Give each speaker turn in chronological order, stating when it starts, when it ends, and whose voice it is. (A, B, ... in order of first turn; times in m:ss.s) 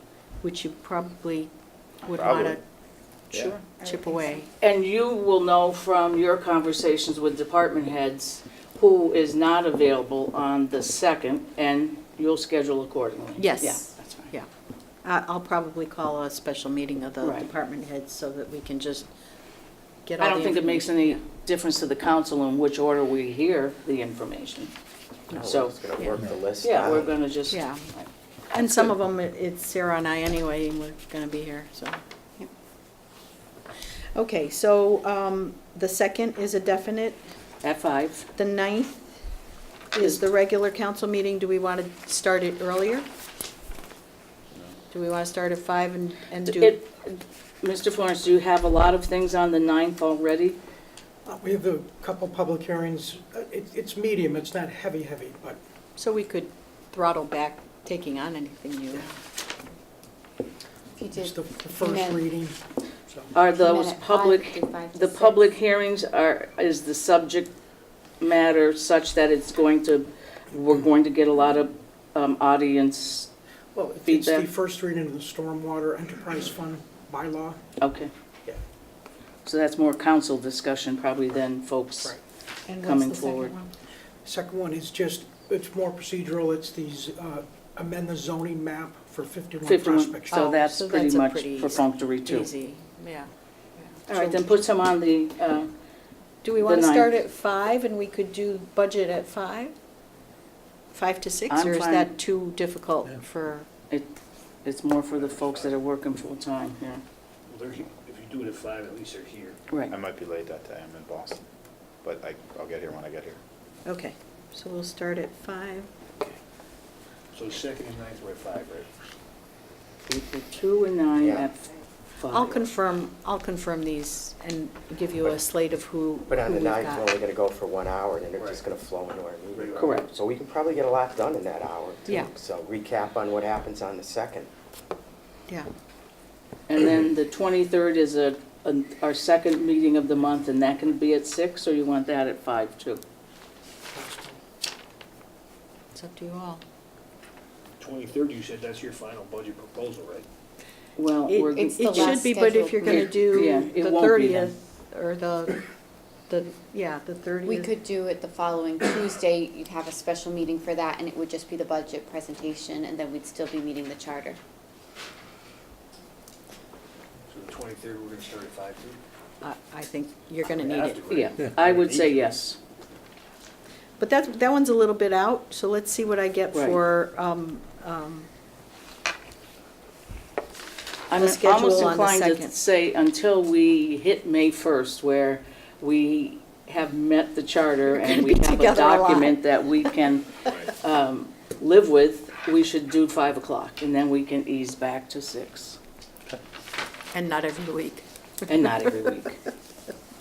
0:00.4-0:01.5 A
0:02.0-0:02.6 A
0:02.1-0:02.6 B
0:03.3-0:03.6 C
0:03.8-0:04.3 D
0:03.8-0:04.5 A
0:04.6-0:14.3 C
0:13.4-0:14.5 A
0:15.0-0:19.1 A
0:17.2-0:17.5 C
0:20.0-0:21.2 A
0:20.2-0:24.7 C
0:25.3-0:27.2 E
0:25.3-0:25.7 C
0:26.6-0:28.9 C
0:27.5-0:27.8 A
0:28.5-0:32.0 A
0:34.1-0:37.2 A
0:37.6-0:38.3 C
0:38.4-0:39.1 A
0:39.9-0:43.0 A
0:44.9-0:46.8 A
0:46.4-0:50.6 C
0:51.2-0:55.6 F
0:56.0-0:59.1 A
1:00.9-1:02.2 D
1:01.1-1:02.6 F
1:03.3-1:07.5 C
1:03.5-1:05.4 D
1:08.2-1:13.3 C
1:13.7-1:17.6 F
1:14.0-1:14.5 C
1:17.8-1:18.1 C
1:19.4-1:22.1 C
1:22.7-1:23.7 A
1:22.8-1:23.5 C
1:24.2-1:30.4 F
1:29.6-1:32.5 C
1:30.3-1:34.6 A
1:34.1-1:35.7 C
1:36.4-1:39.7 A
1:36.6-1:37.1 C
1:40.9-1:43.7 A
1:41.5-1:42.2 C
1:44.6-1:47.0 C
1:45.3-1:45.7 G
1:47.5-1:49.6 G
1:49.9-1:51.4 B
1:52.0-1:53.4 B
1:53.8-1:55.9 A
1:57.3-1:58.9 G
2:00.1-2:02.6 C
2:01.2-2:01.5 E
2:02.3-2:07.1 A
2:06.3-2:14.5 E
2:09.5-2:10.0 G
2:09.8-2:10.1 C
2:16.7-2:23.0 C
2:24.0-2:24.4 F
2:25.9-2:26.6 A
2:27.8-2:30.3 G
2:31.0-2:32.2 C
2:31.3-2:35.6 A
2:31.5-2:33.2 D
2:32.8-2:34.5 C
2:36.3-2:37.7 A
2:37.4-2:44.4 D
2:47.3-2:49.0 G
2:49.4-2:51.2 A
2:50.5-2:52.1 G
2:51.1-2:52.6 C
2:54.0-2:58.3 A
2:56.5-2:56.8 C
3:01.1-3:15.8 C
3:01.1-3:02.5 A
3:07.9-3:09.9 A
3:17.1-3:18.8 A
3:18.5-3:19.4 C